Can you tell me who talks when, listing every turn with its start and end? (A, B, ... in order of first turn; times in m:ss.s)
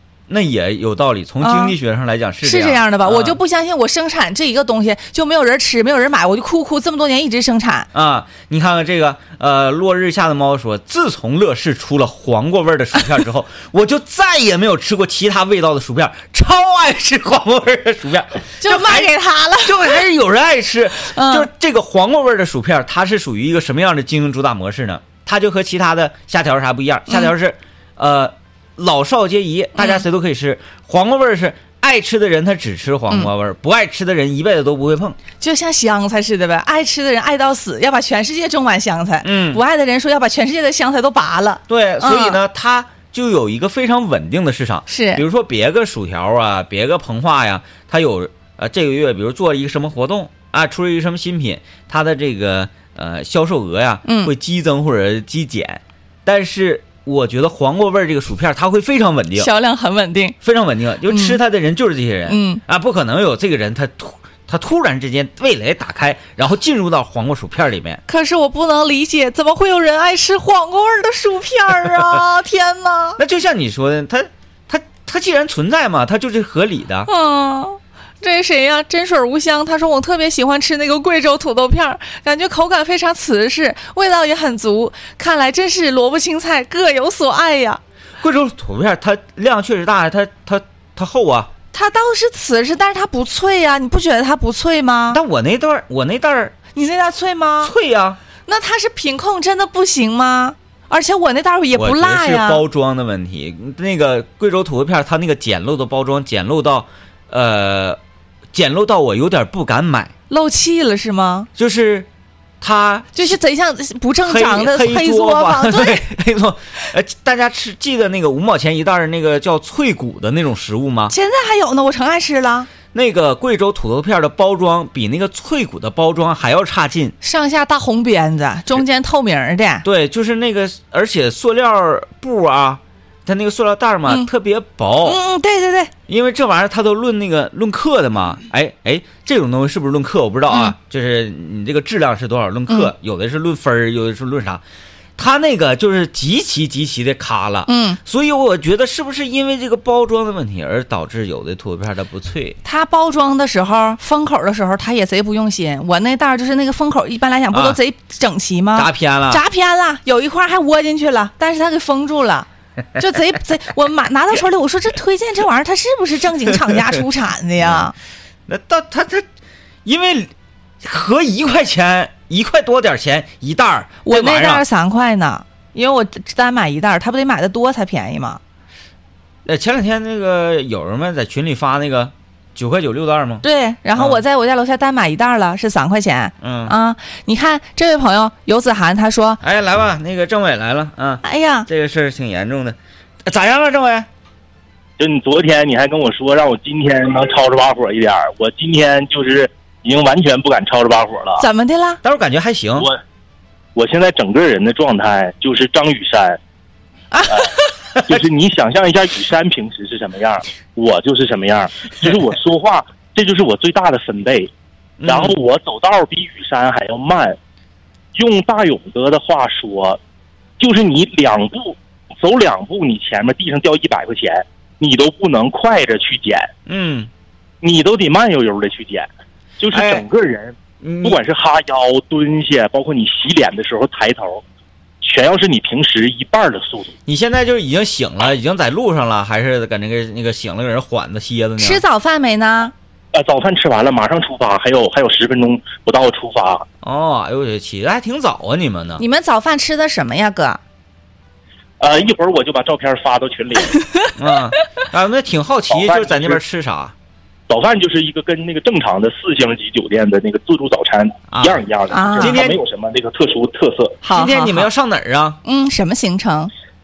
0:00.3-0:03.4 A
0:01.4-0:01.7 B
0:02.4-0:07.9 B
0:07.9-0:19.1 A
0:18.6-0:20.0 B
0:19.6-0:35.2 A
0:21.1-0:21.5 B
0:35.4-0:42.4 B
0:39.2-0:39.6 A
0:41.7-0:59.5 A
0:44.9-0:45.2 B
0:54.0-0:54.3 B
0:59.4-1:00.4 B
1:00.4-1:08.0 A
1:01.1-1:01.4 B
1:02.3-1:02.6 B
1:08.1-1:13.2 B
1:13.2-1:17.1 A
1:17.0-1:27.8 B
1:28.2-1:31.5 A
1:31.7-1:35.2 B
1:35.1-1:36.5 A
1:36.7-1:37.7 B
1:37.6-1:38.2 A
1:38.4-1:42.6 B
1:41.8-1:48.0 A
1:48.5-1:50.1 A
1:50.3-1:51.5 B
1:51.6-1:52.1 A
1:52.6-1:53.4 A
1:53.1-1:56.0 B
1:54.2-2:01.1 A
2:01.1-2:02.7 B
2:02.9-2:07.1 A
2:07.2-2:09.8 B
2:09.8-2:15.2 A
2:15.0-2:15.9 B
2:16.1-2:24.6 A
2:25.2-2:32.6 A
2:27.6-2:28.0 B
2:32.6-2:47.9 B
2:37.5-2:37.8 A
2:38.7-2:39.4 A
2:47.6-2:47.8 A
2:48.5-2:49.2 A
2:49.8-2:50.3 A
2:50.8-2:54.6 A
2:54.0-2:58.4 B
2:59.4-3:03.4 A
3:03.4-3:09.4 B
3:04.0-3:04.2 A
3:06.4-3:06.7 A
3:09.4-3:14.1 A
3:11.2-3:11.7 B
3:15.0-3:21.4 C
3:21.4-3:22.0 B
3:22.0-3:22.9 A
3:23.7-3:26.4 C
3:27.1-3:27.6 B
3:27.3-3:34.5 C
3:35.0-3:35.4 A
3:35.0-3:37.4 C
3:38.1-3:40.0 C
3:40.6-3:46.5 C
3:46.7-3:47.1 A
3:47.6-3:49.1 C
3:49.6-3:54.4 C
3:49.7-3:50.0 A
3:50.8-3:51.2 A
3:55.0-3:56.9 C
3:57.1-4:01.8 A
4:01.6-4:02.7 B
4:03.1-4:06.6 C
4:06.8-4:09.0 A
4:09.0-4:10.6 B
4:11.8-4:13.8 C
4:13.8-4:14.1 B
4:14.2-4:16.9 A
4:15.7-4:16.4 C
4:17.5-4:24.0 C
4:21.3-4:21.6 A
4:21.9-4:22.4 B
4:22.2-4:22.6 A
4:24.0-4:24.7 B
4:24.1-4:25.4 A
4:25.4-4:26.5 B